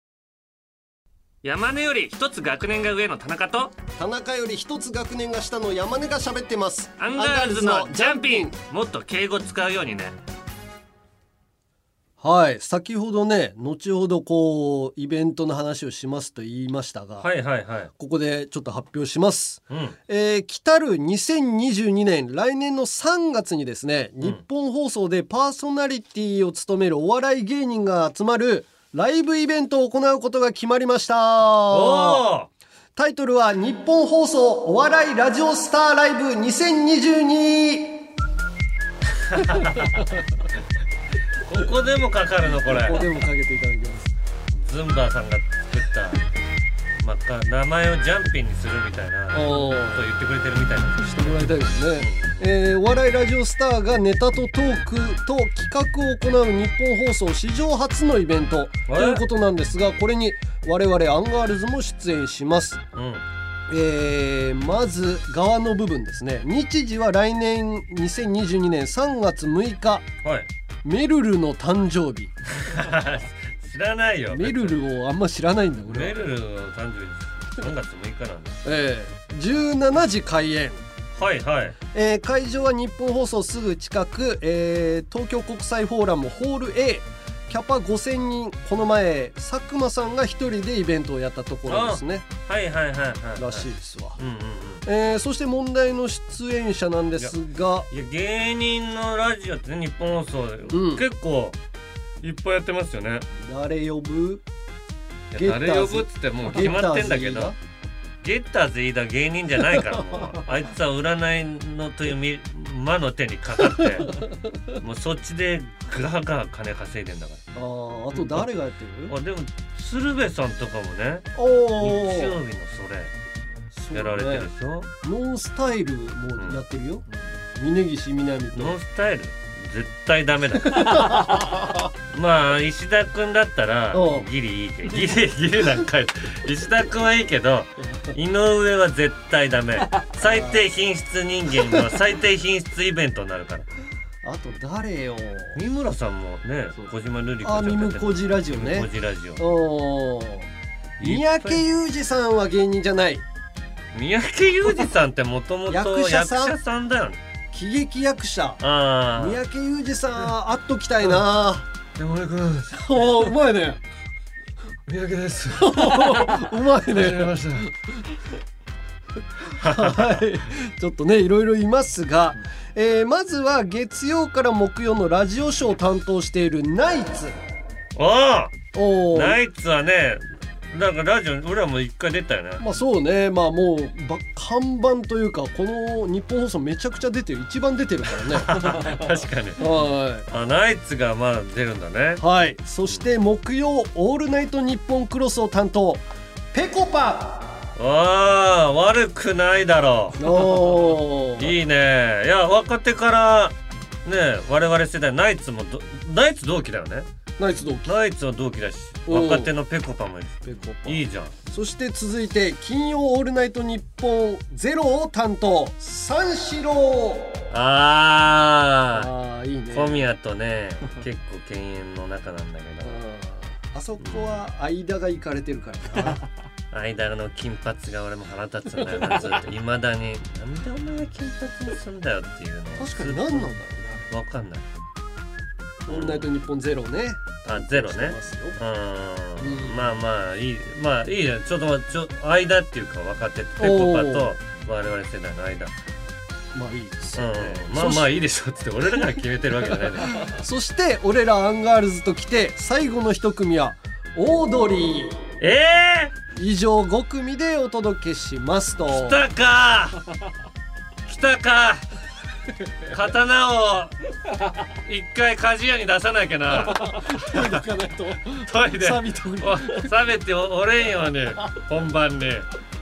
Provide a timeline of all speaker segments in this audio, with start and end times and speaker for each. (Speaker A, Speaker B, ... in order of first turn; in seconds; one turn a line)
Speaker A: 1.4-3.7
Speaker B: 4.0-8.5
Speaker A: 7.0-10.2
Speaker B: 12.2-17.3
Speaker A: 17.2-17.9
Speaker B: 18.0-32.2
Speaker A: 19.7-19.9
Speaker A: 31.7-32.5
Speaker B: 33.0-38.0
Speaker A: 39.2-40.1
Speaker B: 39.8-40.2
Speaker A: 41.4-43.0
Speaker B: 42.7-44.1
Speaker A: 44.5-46.2
Speaker A: 47.0-51.4
Speaker B: 49.3-50.0
Speaker B: 51.0-62.8
Speaker A: 52.0-52.4
Speaker A: 58.9-59.2
Speaker A: 62.9-63.2
Speaker B: 63.7-70.1
Speaker B: 70.8-72.3
Speaker A: 72.6-74.8
Speaker B: 74.3-76.2
Speaker A: 75.9-78.6
Speaker B: 78.6-80.8
Speaker A: 81.1-81.8
Speaker B: 81.9-92.2
Speaker A: 91.7-94.8
Speaker B: 93.4-94.2
Speaker B: 94.8-97.9
Speaker A: 97.9-101.6
Speaker B: 100.7-101.0
Speaker A: 102.2-103.3
Speaker B: 103.4-104.4
Speaker A: 105.3-107.5
Speaker B: 105.3-107.5
Speaker A: 108.2-114.2
Speaker B: 109.8-110.4
Speaker B: 113.6-114.3
Speaker A: 114.8-117.4
Speaker B: 117.5-119.1
Speaker A: 119.1-123.1
Speaker B: 121.3-122.4
Speaker B: 123.7-124.5
Speaker A: 123.9-124.9
Speaker B: 125.0-128.8
Speaker A: 128.5-131.3
Speaker B: 130.6-131.8
Speaker A: 132.1-143.7
Speaker B: 133.9-134.3
Speaker B: 140.2-140.7
Speaker B: 144.2-145.6
Speaker A: 145.5-149.4
Speaker B: 146.8-150.5
Speaker A: 151.0-151.6
Speaker B: 151.0-153.2
Speaker A: 153.9-157.2
Speaker B: 155.7-156.5
Speaker B: 157.5-158.6
Speaker A: 158.6-159.4
Speaker B: 159.1-161.7
Speaker A: 161.9-162.8
Speaker B: 162.7-163.8
Speaker A: 164.9-167.7
Speaker B: 165.6-167.7
Speaker A: 169.5-170.2
Speaker B: 169.6-177.3
Speaker A: 177.9-182.6
Speaker B: 178.7-179.4
Speaker B: 182.6-188.9
Speaker A: 188.3-189.6
Speaker B: 189.6-190.2
Speaker A: 190.3-192.2
Speaker B: 192.2-197.5
Speaker A: 197.8-200.3
Speaker B: 200.2-201.6
Speaker A: 201.4-207.1
Speaker B: 207.4-207.9
Speaker A: 207.8-211.3
Speaker B: 209.1-209.5
Speaker B: 210.4-217.4
Speaker A: 217.5-219.1
Speaker B: 218.9-220.1
Speaker A: 219.7-223.0
Speaker B: 222.8-226.2
Speaker A: 224.0-224.4
Speaker A: 226.7-233.5
Speaker B: 232.8-234.1
Speaker A: 234.1-234.7
Speaker A: 235.8-236.3
Speaker B: 235.9-238.6
Speaker A: 237.4-245.7
Speaker B: 239.4-240.0
Speaker B: 243.6-244.3
Speaker B: 246.5-248.1
Speaker A: 247.2-250.2
Speaker B: 250.0-255.2
Speaker A: 255.4-256.1
Speaker B: 256.3-259.2
Speaker A: 258.9-260.0
Speaker A: 261.1-261.9
Speaker A: 262.9-263.9
Speaker A: 264.8-267.5
Speaker B: 266.5-269.9
Speaker A: 268.4-272.5